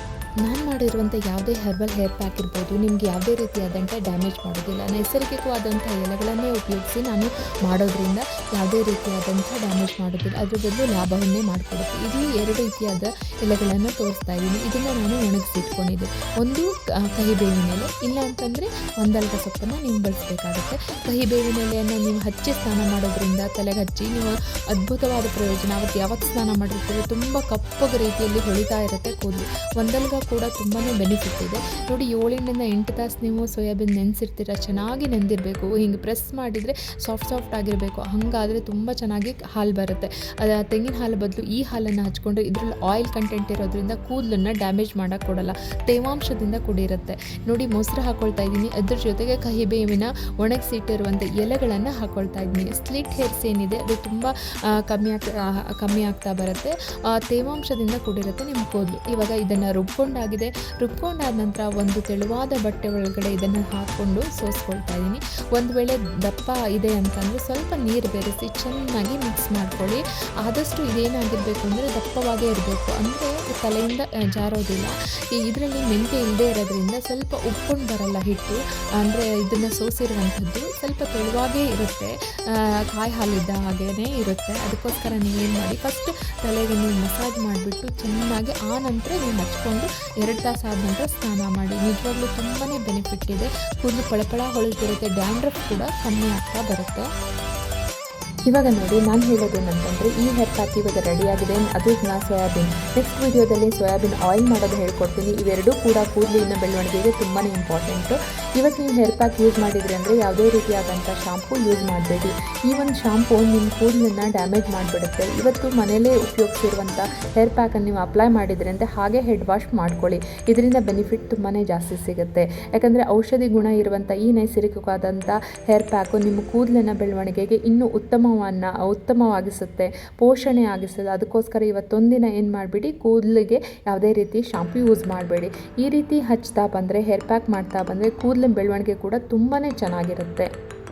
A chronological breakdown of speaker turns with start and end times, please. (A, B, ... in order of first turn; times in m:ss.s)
0:00.4-0:54.3 A
0:54.9-1:37.0 A
1:38.5-2:20.5 A